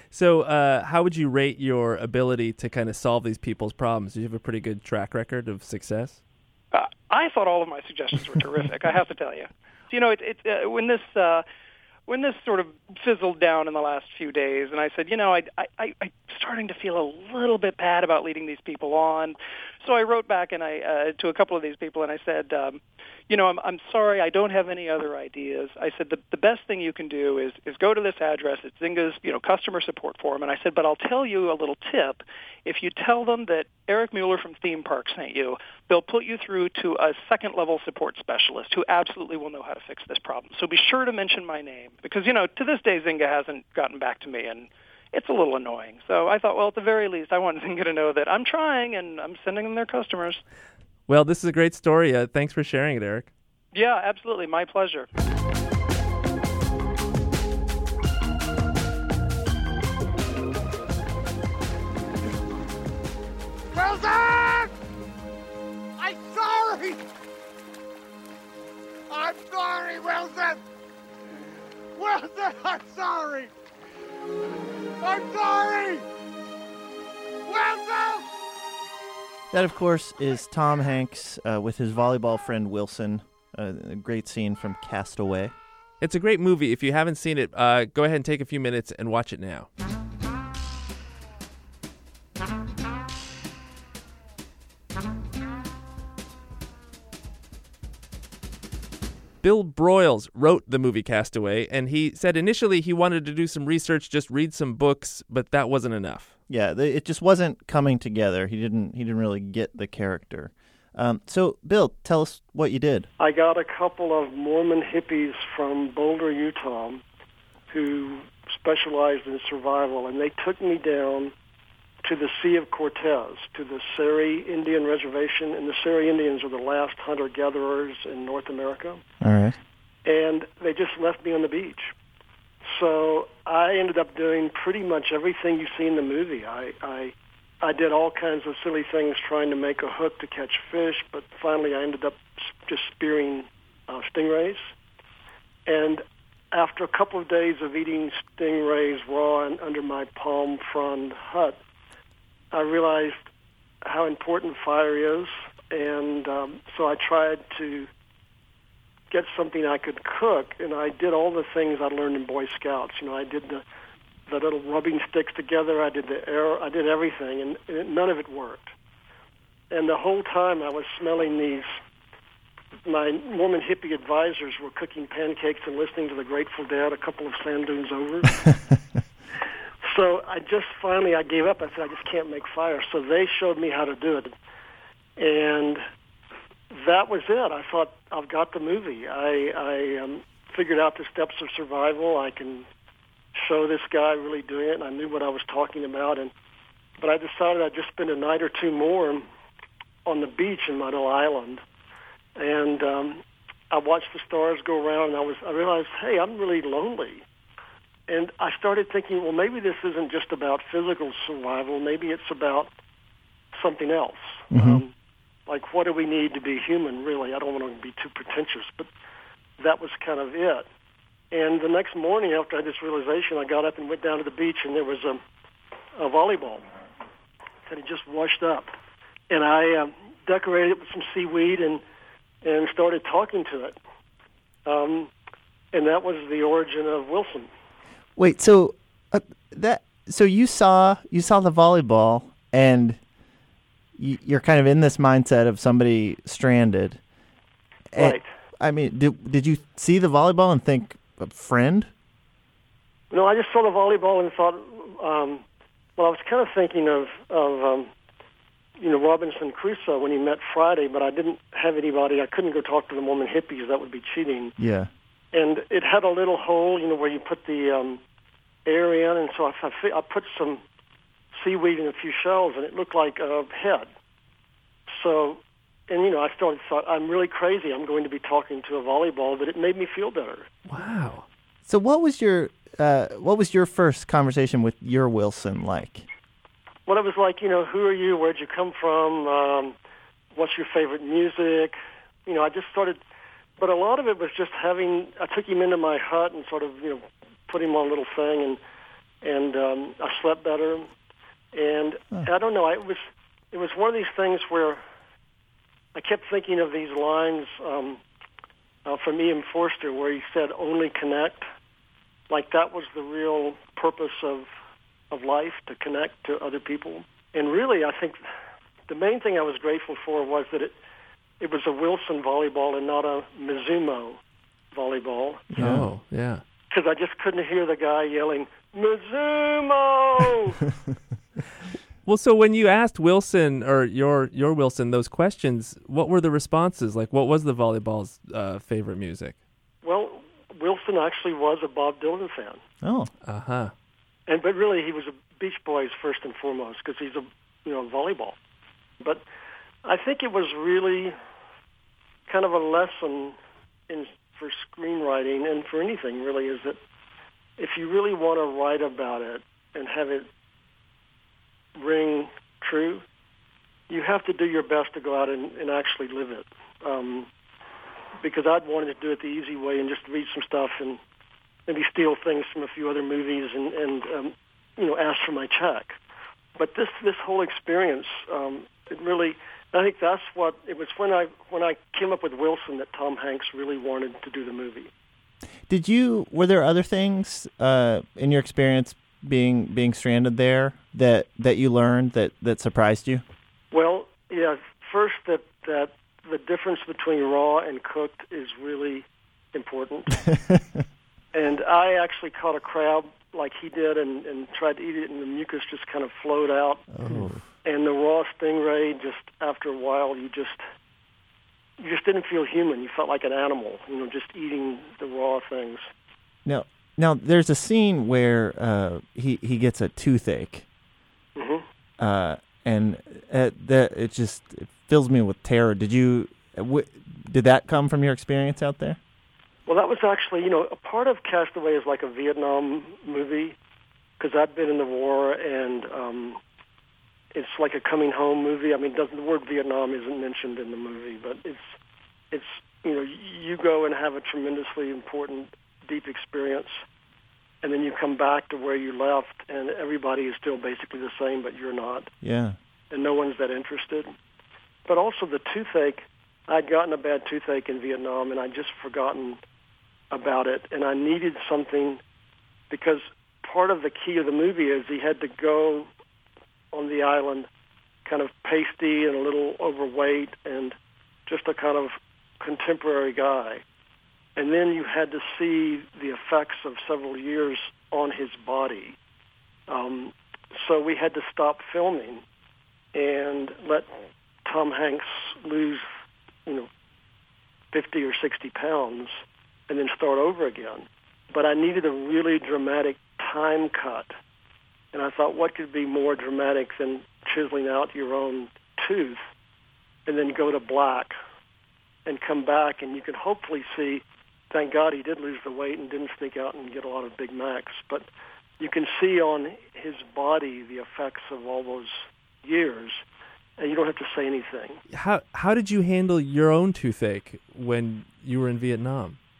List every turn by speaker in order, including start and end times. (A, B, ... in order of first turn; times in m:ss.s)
0:00.1-0:06.2 A
0:06.7-0:11.4 B
0:12.1-0:50.4 B
0:51.1-0:53.3 A
0:53.7-0:55.1 B
1:03.7-1:04.7 C
1:06.0-1:07.0 C
1:09.1-1:10.6 C
1:11.9-1:13.5 C
1:15.0-1:16.0 C
1:17.4-1:18.2 C
1:19.5-1:25.5 D
1:26.0-1:29.7 A
1:39.4-1:46.3 A
1:46.5-1:53.1 D
1:53.2-1:57.0 E
1:57.7-2:01.3 E
2:02.0-2:09.0 E
2:09.2-2:09.6 D
2:10.0-2:11.9 E
2:12.6-2:24.7 E
2:25.7-2:31.6 E
2:32.5-2:33.3 E
2:33.8-2:37.9 E
2:39.1-2:43.6 E
2:44.3-2:48.7 E
2:49.7-2:51.7 E
2:52.8-2:58.5 E
2:59.8-3:04.3 E
3:05.2-3:05.8 E
3:06.7-3:12.7 E
3:13.3-3:16.3 E
3:17.0-3:19.2 E
3:20.0-3:21.6 E
3:22.4-3:27.2 E
3:28.1-3:32.7 E
3:33.5-3:34.9 E
3:34.5-3:34.8 D
3:35.5-3:38.9 E
3:39.6-3:40.7 E
3:41.3-3:45.2 E
3:46.0-3:46.6 E
3:47.6-3:48.7 E
3:49.3-3:51.8 E
3:52.4-3:53.8 E
3:54.6-3:55.1 E
3:55.7-3:57.5 E
3:58.2-4:03.0 D
4:04.0-4:07.0 D
4:07.9-4:11.9 D
4:08.0-4:08.3 E
4:13.1-4:15.4 E
4:16.0-4:17.9 E
4:18.8-4:24.5 E
4:24.6-4:24.9 D
4:25.3-4:28.0 E
4:28.6-4:30.6 E
4:31.3-4:33.9 E
4:34.9-4:40.5 E
4:40.7-4:41.2 A
4:41.6-4:46.1 D
4:46.9-4:49.7 E
4:50.3-4:53.0 E
4:53.6-4:58.6 E
4:59.2-5:00.9 E
5:01.5-5:04.8 E
5:05.9-5:08.0 E
5:08.8-5:11.4 E
5:12.3-5:14.5 E
5:15.1-5:18.2 E
5:18.9-5:20.7 E
5:21.4-5:24.2 E
5:24.7-5:25.5 E
5:25.5-5:25.9 D
5:25.6-5:26.4 A
5:26.7-5:30.6 E
5:32.0-5:39.4 A
5:39.8-5:42.6 E
5:42.8-5:43.1 D
5:43.2-5:43.7 A
5:44.3-5:48.4 E
5:49.8-5:51.1 E
5:52.3-5:53.4 E
5:53.9-5:56.8 E
5:57.6-6:00.3 E
6:01.8-6:03.0 E
6:03.9-6:07.3 E
6:08.2-6:11.0 E
6:11.7-6:16.0 E
6:16.6-6:24.9 E
6:25.7-6:33.2 D
6:33.7-6:40.3 E
6:41.3-6:47.0 E
6:46.9-6:47.5 D
6:47.6-6:50.6 E
6:51.8-6:55.8 E
6:56.4-7:00.7 D
7:01.4-7:01.6 E
7:02.0-7:09.0 D
7:09.7-7:13.6 E
7:14.2-7:16.4 E
7:17.3-7:21.7 E
7:22.3-7:26.8 E
7:27.6-7:32.1 E
7:32.2-7:32.6 D
7:32.9-7:34.1 E
7:34.9-7:39.4 E
7:40.1-7:42.0 E
7:42.7-7:45.9 E
7:46.7-7:47.5 E
7:48.0-7:50.7 E
7:51.3-7:53.6 E
7:54.4-7:59.0 E
7:59.7-8:02.2 E
8:02.9-8:03.9 E
8:04.4-8:05.8 E
8:07.7-8:14.1 E
8:14.9-8:19.2 E
8:20.0-8:21.1 E
8:22.0-8:28.0 E
8:28.6-8:33.0 E
8:33.6-8:34.8 E
8:34.9-8:39.2 A